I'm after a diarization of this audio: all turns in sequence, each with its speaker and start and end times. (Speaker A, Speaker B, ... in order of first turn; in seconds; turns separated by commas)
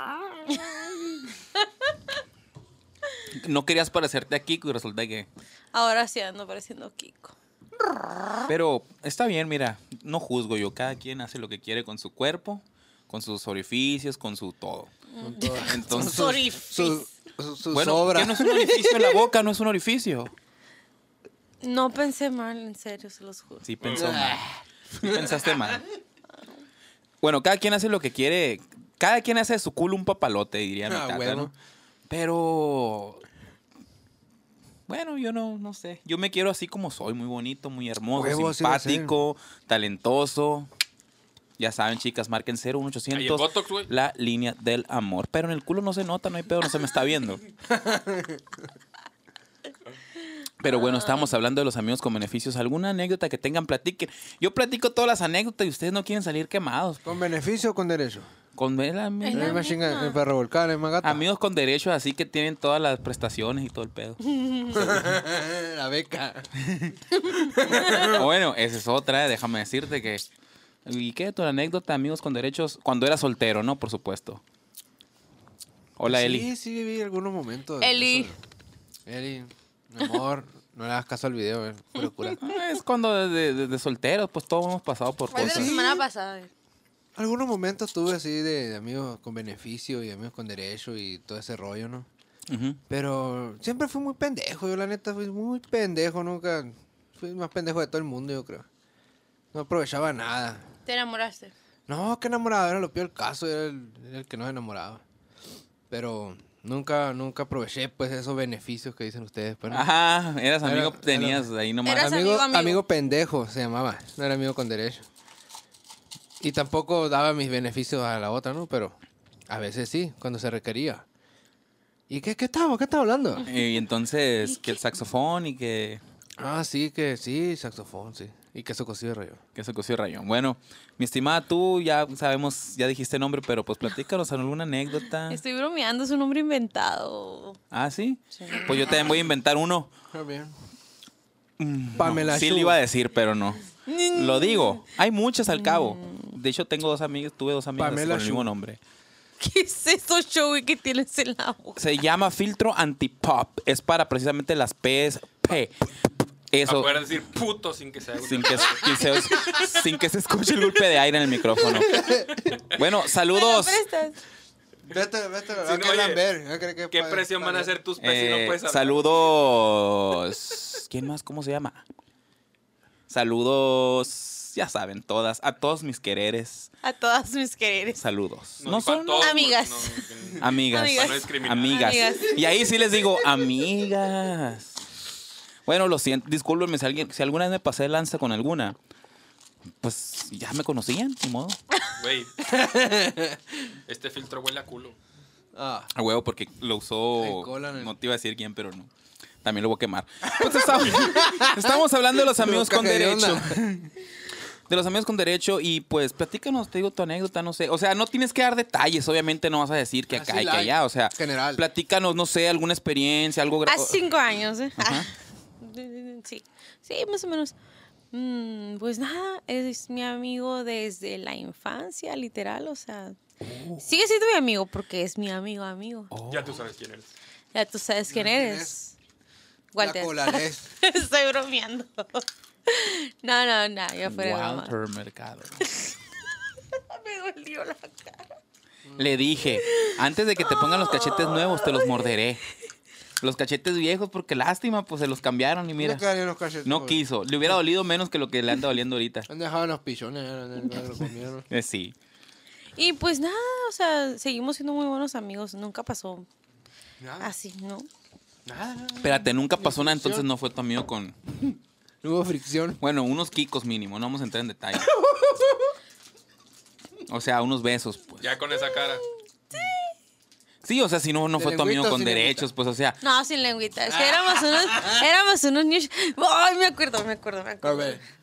Speaker A: 3.3-5.3, Speaker B: 5.7-7.4, Speaker A: 8.4-14.9, Speaker B: 15.1-17.0, Speaker C: 15.2-19.2, Speaker A: 15.6-16.3, Speaker A: 17.7-20.3, Speaker B: 21.6-23.7, Speaker A: 23.6-25.8, Speaker D: 23.8-24.1, Speaker C: 23.9-25.7, Speaker A: 27.2-31.5, Speaker C: 30.9-31.5, Speaker A: 32.1-33.2, Speaker A: 34.9-40.7, Speaker C: 38.1-39.1, Speaker A: 41.6-47.4, Speaker D: 43.1-43.9, Speaker C: 47.7-48.4, Speaker A: 50.6-57.0, Speaker B: 50.8-51.2, Speaker C: 57.0-58.3, Speaker A: 58.6-59.7, Speaker B: 59.2-60.2, Speaker C: 59.3-61.2, Speaker A: 61.0-64.2, Speaker B: 64.2-64.8, Speaker C: 64.7-68.3, Speaker B: 67.3-68.1, Speaker A: 68.0-70.2, Speaker A: 70.9-74.4, Speaker A: 76.0-76.5, Speaker C: 76.1-78.4, Speaker B: 77.8-78.3, Speaker C: 79.1-82.4, Speaker A: 82.4-85.7, Speaker B: 85.3-86.5, Speaker C: 85.3-86.0, Speaker C: 87.2-92.1, Speaker A: 92.5-92.8, Speaker C: 92.9-98.7, Speaker C: 99.5-100.7, Speaker B: 100.9-101.5, Speaker C: 101.9-105.0, Speaker C: 105.9-109.9, Speaker A: 109.7-112.1, Speaker C: 110.6-115.0, Speaker B: 111.8-112.8, Speaker C: 116.4-119.0, Speaker C: 119.5-121.0, Speaker C: 122.1-123.5, Speaker A: 123.4-126.0, Speaker C: 126.4-129.4, Speaker A: 129.6-135.4, Speaker B: 135.3-137.6, Speaker A: 137.7-139.9, Speaker B: 138.4-138.7, Speaker C: 140.1-140.5, Speaker A: 141.6-148.8, Speaker C: 142.0-142.8, Speaker B: 143.8-144.8, Speaker B: 145.5-146.4, Speaker C: 147.8-148.5, Speaker B: 149.4-151.8, Speaker A: 151.8-155.7, Speaker A: 156.5-156.9, Speaker D: 156.7-159.6, Speaker A: 158.2-163.8, Speaker C: 161.7-162.4, Speaker B: 163.3-164.2, Speaker C: 164.9-167.7, Speaker D: 165.6-166.2, Speaker D: 166.9-169.0, Speaker A: 168.0-171.8, Speaker A: 173.1-176.7, Speaker B: 176.8-178.0, Speaker A: 177.9-179.5, Speaker D: 178.6-181.9, Speaker B: 179.2-182.7, Speaker A: 180.4-184.8, Speaker A: 185.7-188.8, Speaker A: 189.8-191.6, Speaker D: 192.0-192.3, Speaker C: 192.4-193.5, Speaker D: 193.9-195.0, Speaker C: 195.5-195.9, Speaker A: 195.9-198.9, Speaker C: 197.2-197.9, Speaker A: 199.4-203.9, Speaker C: 200.3-203.6, Speaker A: 204.7-214.0, Speaker C: 210.1-211.6, Speaker B: 213.7-215.1, Speaker A: 214.8-215.1, Speaker B: 215.6-217.6, Speaker B: 218.1-223.2, Speaker B: 223.8-226.1, Speaker A: 226.1-226.7, Speaker D: 226.3-227.1, Speaker B: 227.5-228.9, Speaker C: 228.1-228.8, Speaker B: 229.7-234.7, Speaker C: 229.8-230.7, Speaker A: 234.1-235.6, Speaker B: 235.6-235.9, Speaker B: 236.7-238.3, Speaker C: 238.9-239.1, Speaker A: 239.0-242.4, Speaker B: 239.6-242.1, Speaker A: 243.2-246.0, Speaker C: 245.8-247.0, Speaker A: 246.7-249.3, Speaker C: 249.3-251.5, Speaker A: 251.5-251.9, Speaker B: 252.8-256.3, Speaker C: 257.0-257.3, Speaker B: 257.2-257.9, Speaker C: 258.5-260.2, Speaker A: 259.0-261.4, Speaker C: 262.0-262.8, Speaker A: 262.8-264.9, Speaker C: 264.9-265.7, Speaker A: 267.1-268.2, Speaker D: 268.2-269.0, Speaker B: 269.5-269.9, Speaker A: 270.6-273.0, Speaker C: 271.4-272.5, Speaker B: 273.0-278.0, Speaker C: 273.9-275.1, Speaker C: 277.6-278.0